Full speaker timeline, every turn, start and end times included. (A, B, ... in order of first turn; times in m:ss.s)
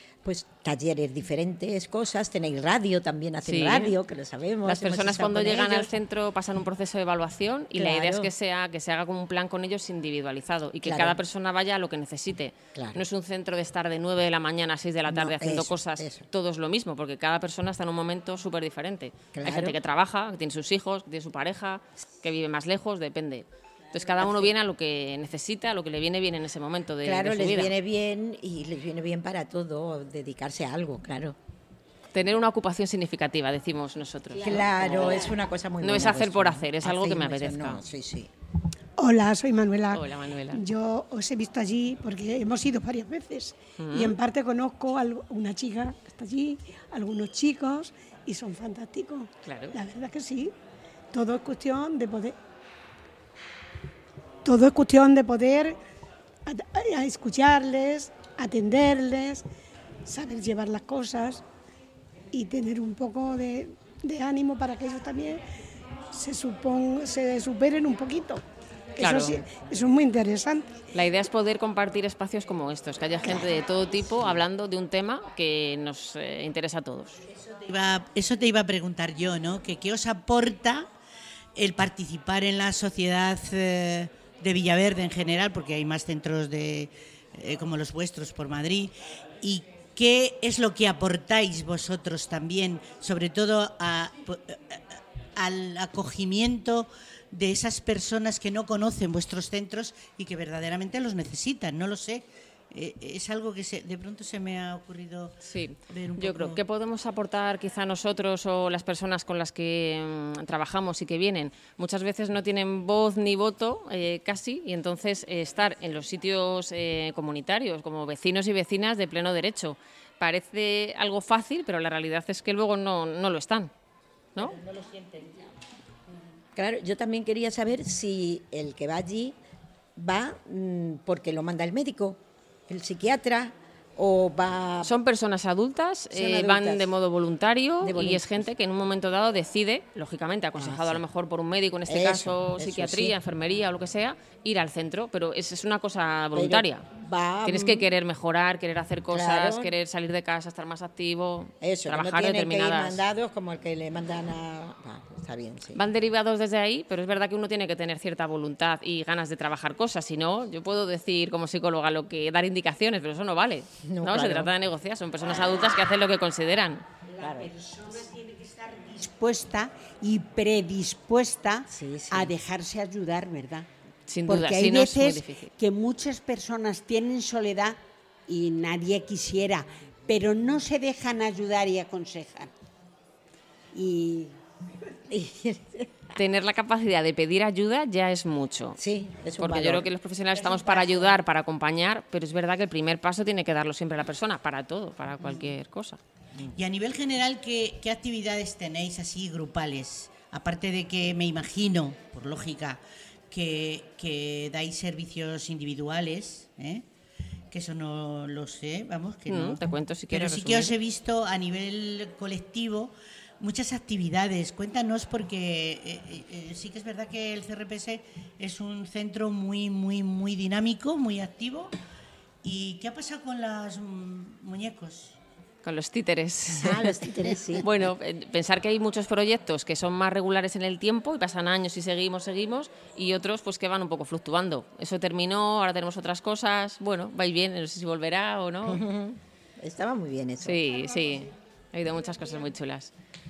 0:00.2-0:05.9 A
0:03.4-0:03.9 B
0:04.6-0:27.7 B
0:07.7-0:08.3 A
0:10.8-0:11.2 A
0:12.7-0:13.0 A
0:15.1-0:16.2 A
0:19.3-0:19.8 A
0:27.0-0:31.4 A
0:32.1-0:35.3 B
0:34.4-0:38.3 A
0:35.8-0:37.8 B
0:39.0-0:50.5 C
0:39.9-0:40.6 B
0:43.8-0:44.1 B
0:49.4-0:49.7 B
0:51.1-0:52.4 C
0:54.4-0:55.8 C
0:56.4-0:59.4 C
1:00.0-1:01.4 C
1:02.3-1:05.4 C
1:06.1-1:08.4 C
1:09.0-1:10.8 C
1:09.0-1:09.4 B
1:10.9-1:17.2 B
1:17.3-1:20.9 D
1:21.6-1:34.8 D
1:35.4-1:45.4 D
1:45.4-2:03.7 B
1:45.9-1:46.6 D
2:04.4-2:05.2 D
2:06.5-2:09.4 A
2:10.0-2:15.0 A
2:14.8-2:26.8 B
2:16.1-2:16.9 A
2:17.8-2:18.5 A
2:20.6-2:21.0 A
2:21.8-2:23.1 A
2:26.3-2:27.9 A
2:27.4-2:33.0 B
2:29.1-2:29.7 A
2:31.6-2:35.8 A
2:35.7-2:46.8 B
2:43.8-2:44.5 A
2:47.2-2:53.7 E
2:47.2-2:47.5 A
2:51.7-2:52.3 A
2:54.1-2:55.5 B
2:54.3-3:02.5 E
3:03.7-3:04.3 E
3:05.1-3:05.9 A
3:06.2-3:08.8 B
3:08.8-3:09.8 A
3:09.3-3:16.0 B
3:15.2-3:15.5 D
3:16.4-3:26.8 D
3:27.5-3:41.7 D
3:29.3-3:30.8 B
3:42.4-3:45.2 D
3:45.6-3:46.9 B
3:46.5-3:47.7 A
3:47.6-3:58.8 B
3:58.6-4:00.6 A
4:00.4-4:02.9 B